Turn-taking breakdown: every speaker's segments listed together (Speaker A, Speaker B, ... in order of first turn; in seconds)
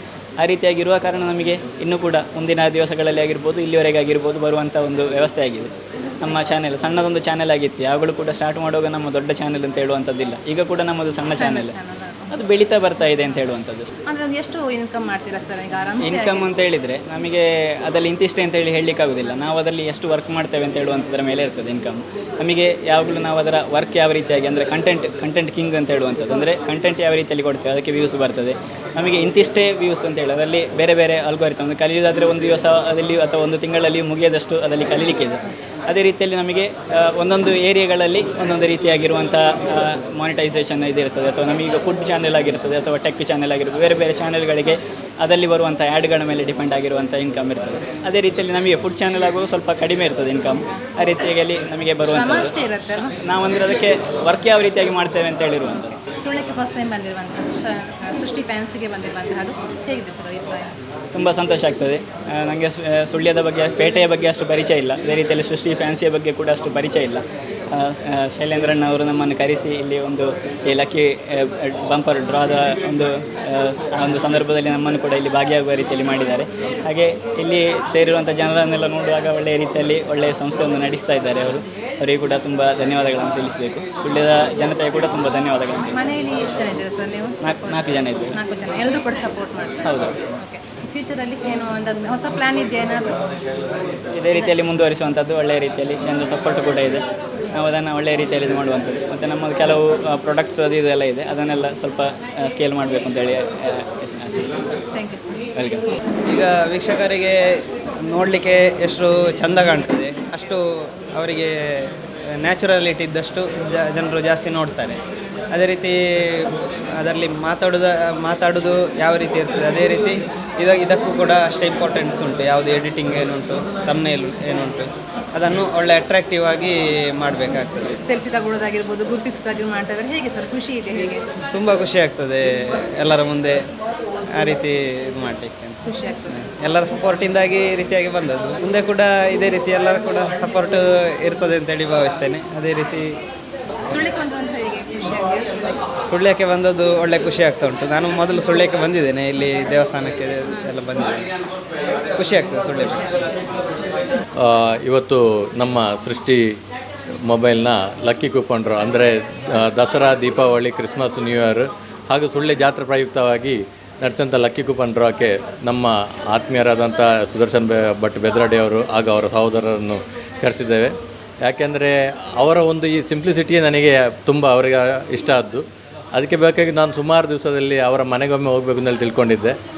Speaker A: 0.4-11.8, 12.3-13.9, 16.0-52.5, 53.2-56.0, 61.1-86.3, 87.4-88.4, 89.8-90.1, 94.2-97.0, 97.5-104.6, 105.5-105.8
Speaker B: 11.4-12.3, 14.1-16.5, 52.1-53.2, 56.0-60.8, 85.9-93.2, 104.9-105.5, 128.0-131.2, 135.8-136.3, 143.9-145.8
Speaker C: 106.3-107.4, 108.0-115.0, 115.5-128.0, 131.5-133.6, 134.3-135.8, 136.3-143.1, 146.1-151.3, 152.2-153.1
Speaker D: 154.4-156.4, 157.3-175.6, 176.1-179.5